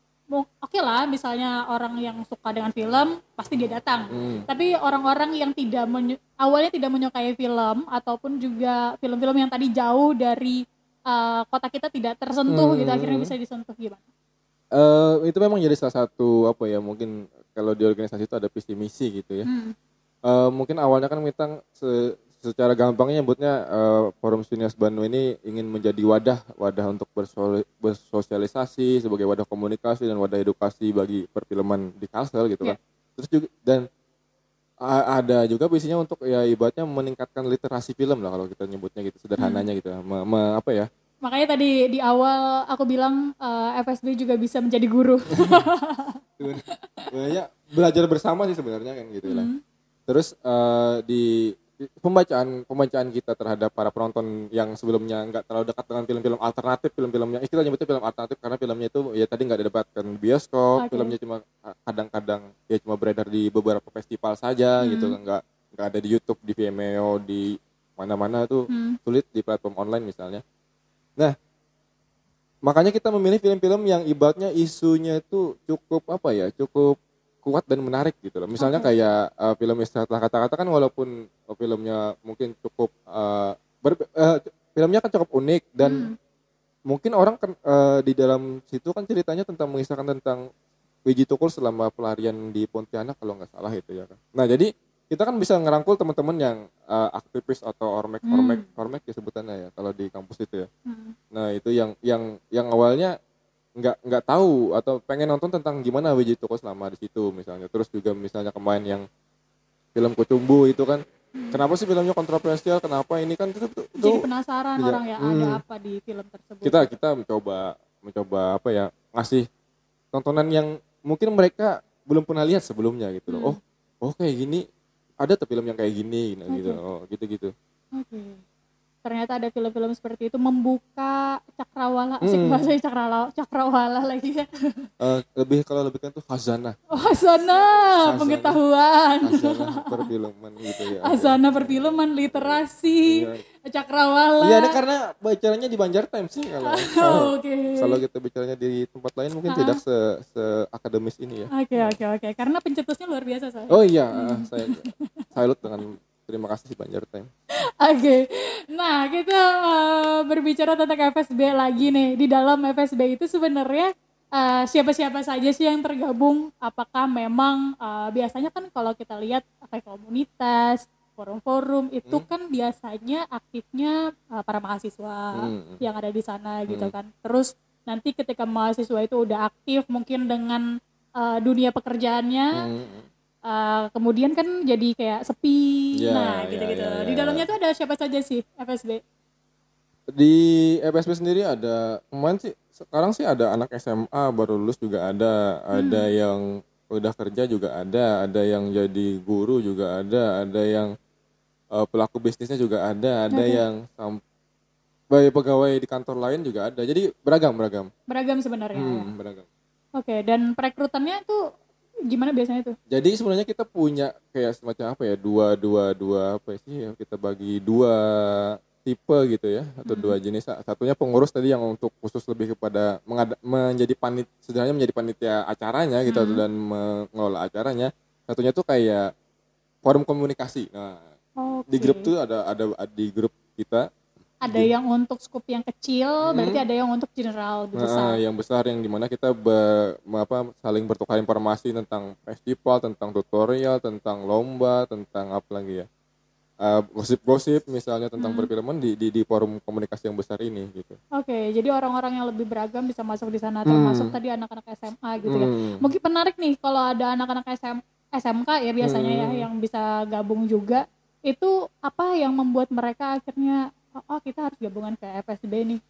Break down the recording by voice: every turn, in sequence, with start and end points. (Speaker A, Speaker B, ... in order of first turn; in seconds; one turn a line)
Speaker A: 0.3-14.0
Speaker B: 4.1-4.5
Speaker B: 12.5-13.3
Speaker B: 14.8-19.5
Speaker A: 19.4-19.7
Speaker B: 20.3-33.9
Speaker B: 34.8-40.9
Speaker A: 39.4-39.7
Speaker A: 41.2-47.1
Speaker B: 45.4-45.7
Speaker B: 46.4-49.5
Speaker A: 49.3-49.6
Speaker B: 50.1-70.4
Speaker A: 60.8-61.1
Speaker A: 64.8-65.2
Speaker A: 68.7-69.0
Speaker B: 72.7-86.1
Speaker A: 78.6-78.9
Speaker A: 85.8-86.2
Speaker B: 86.9-90.5
Speaker B: 91.1-100.7
Speaker A: 98.3-98.7
Speaker A: 100.9-101.2
Speaker B: 101.3-103.1
Speaker B: 103.8-109.1
Speaker B: 110.0-114.2
Speaker A: 111.4-111.6
Speaker A: 114.0-116.9
Speaker B: 114.8-115.6
Speaker B: 116.6-119.5
Speaker B: 120.1-124.6
Speaker A: 123.3-123.6
Speaker B: 125.2-127.5
Speaker A: 126.5-126.8
Speaker A: 128.0-128.4
Speaker A: 129.0-134.9
Speaker B: 132.2-132.7
Speaker B: 135.0-137.1
Speaker A: 136.9-140.1
Speaker B: 138.0-138.6
Speaker B: 139.2-143.4
Speaker A: 140.7-144.8
Speaker B: 144.4-152.0
Speaker A: 146.7-148.0
Speaker A: 149.5-149.8
Speaker A: 151.5-155.3
Speaker B: 153.7-157.3
Speaker A: 157.6-180.7
Speaker B: 175.3-175.8
Speaker A: 181.2-182.6
Speaker B: 182.6-183.1
Speaker A: 183.5-189.0
Speaker B: 186.0-187.5
Speaker B: 190.1-200.9
Speaker A: 195.8-196.0
Speaker B: 201.7-204.2
Speaker A: 203.3-203.6
Speaker B: 205.1-207.9
Speaker A: 208.1-209.1
Speaker B: 208.8-209.5
Speaker A: 210.0-211.4
Speaker A: 212.1-212.7
Speaker B: 212.9-229.1
Speaker A: 219.8-220.2
Speaker A: 226.1-226.4
Speaker B: 229.8-231.1
Speaker A: 231.4-232.1
Speaker B: 231.7-233.8
Speaker A: 234.4-238.2
Speaker B: 234.5-234.7
Speaker B: 236.3-236.6
Speaker B: 237.8-245.9
Speaker B: 246.6-251.0
Speaker A: 248.2-248.5
Speaker A: 251.2-265.8
Speaker B: 253.7-254.1
Speaker B: 255.3-255.8
Speaker B: 258.8-259.5